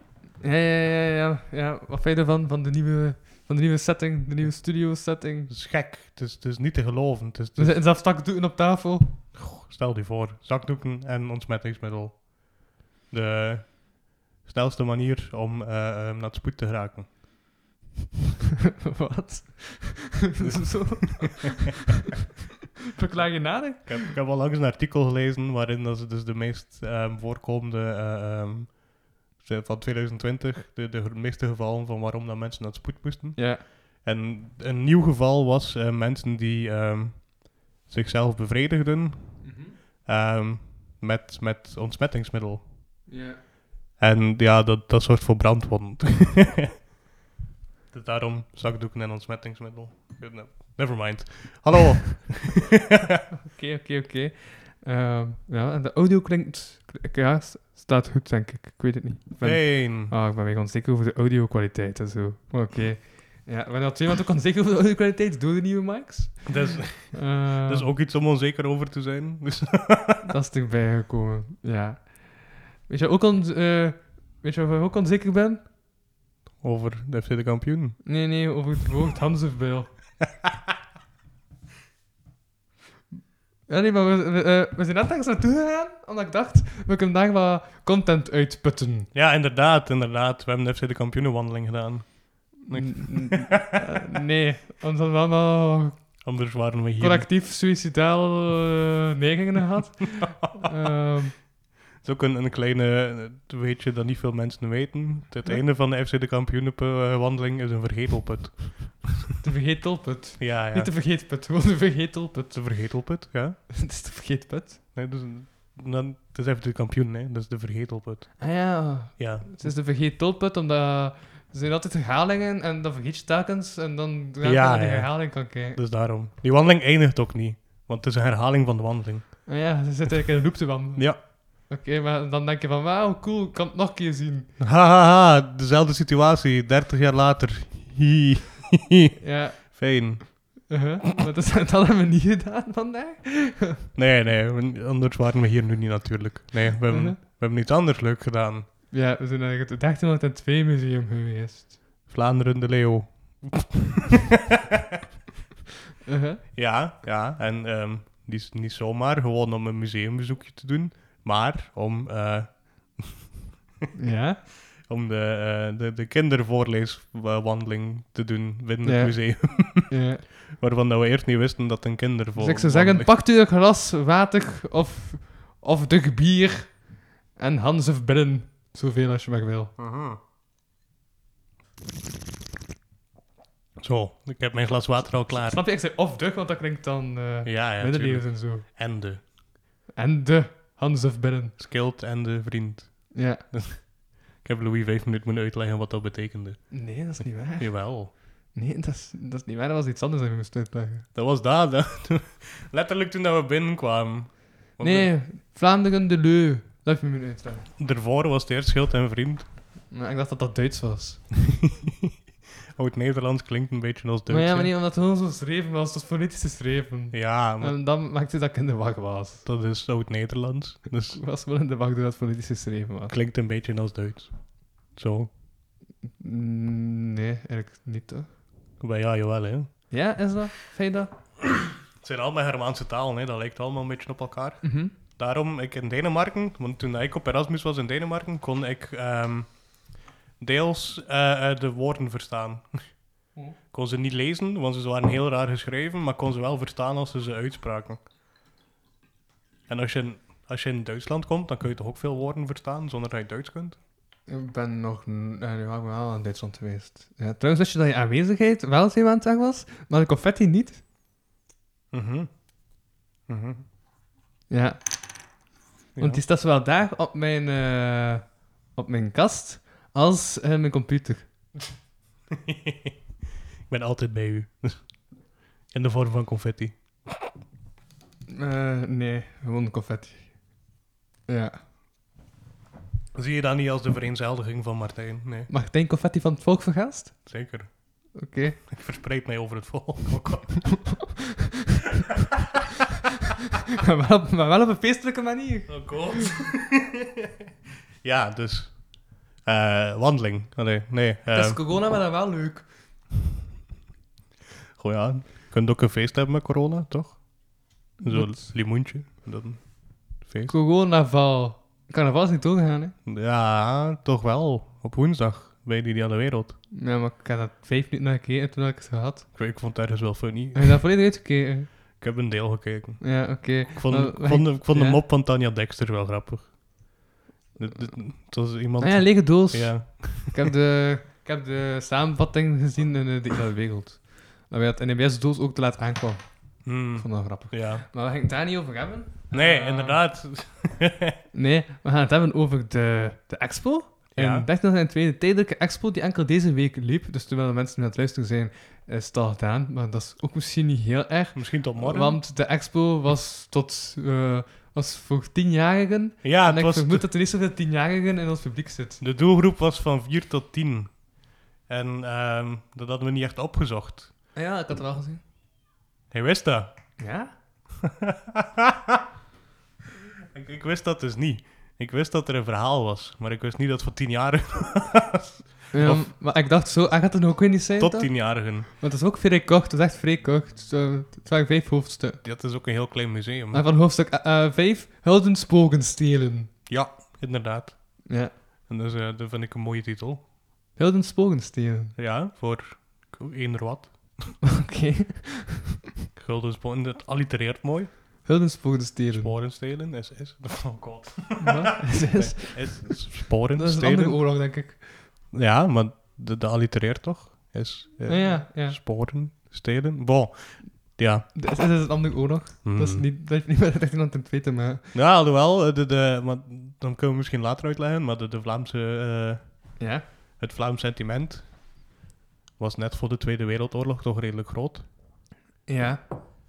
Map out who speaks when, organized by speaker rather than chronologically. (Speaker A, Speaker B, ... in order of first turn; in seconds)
Speaker A: 0.4-5.5, 7.6-9.2, 18.9-21.7, 22.9-24.1, 33.4-33.6, 39.4-39.8, 43.1-43.4, 53.5-67.9, 70.2-75.6, 78.0-79.9, 83.7-89.1, 92.7-96.2, 97.0-101.3, 109.4-113.1, 113.7-114.8, 118.4-125.8, 129.4-134.5, 139.2-143.8, 146.9-147.2, 148.9-151.8, 156.1-156.4, 163.9-164.4, 168.8-170.2, 172.3-179.7, 185.3-188.7, 189.9-191.6, 193.1-193.4, 196.7-201.1, 204.8-207.7, 209.9-211.2, 214.3-219.4, 221.1-223.1, 226.2-228.3, 229.9-231.1, 234.6-234.9, 254.3-260.8, 264.5-264.8, 266.0-271.5, 278.3-280.7, 281.3-281.6, 285.5-287.3, 288.1-288.6, 293.8-296.0, 301.3-302.7, 308.0-308.5, 310.5-312.9, 316.7-319.3, 320.5-321.7, 323.0-325.0, 328.8-340.0, 341.3-359.0, 364.3-365.2, 367.0-367.3, 375.7-382.2, 383.5-386.5, 388.1-388.3, 390.8-391.9, 394.5-395.6, 398.2-399.3, 401.4-405.1, 408.0-408.8, 411.3-414.9, 419.8-420.0, 425.6-426.0
Speaker B: 5.5-7.8, 9.3-17.2, 20.4-21.3, 23.6-43.1, 44.0-46.7, 47.9-53.2, 59.4-60.1, 66.5-70.2, 76.6-78.0, 89.1-93.6, 96.2-97.3, 102.0-109.2, 110.4-110.9, 112.5-113.6, 114.9-119.7, 124.4-129.4, 134.6-140.8, 143.9-148.7, 152.1-153.8, 156.5-163.2, 164.8-173.1, 179.8-180.2, 183.8-185.6, 187.4-189.3, 191.6-198.1, 201.1-205.1, 207.8-209.5, 212.7-214.7, 217.1-217.8, 219.4-221.2, 223.1-225.3, 228.8-230.3, 231.9-248.0, 249.7-253.8, 261.9-262.6, 263.2-263.6, 265.9-266.2, 272.4-272.9, 273.6-275.1, 275.7-277.1, 283.1-285.5, 287.2-288.1, 288.7-291.0, 295.7-297.0, 298.0-301.6, 304.8-310.5, 313.1-316.6, 319.3-320.8, 322.0-326.9, 327.6-330.5, 336.6-337.9, 339.3-341.2, 344.1-344.5, 351.3-352.2, 356.2-357.1, 359.0-364.1, 366.1-367.0, 368.1-369.0, 370.3-376.1, 377.8-378.7, 382.2-383.6, 386.7-388.1, 388.7-390.2, 391.9-394.4, 396.1-398.2, 399.1-404.4, 405.3-411.3, 412.6-413.0, 414.9-421.9, 422.6-424.9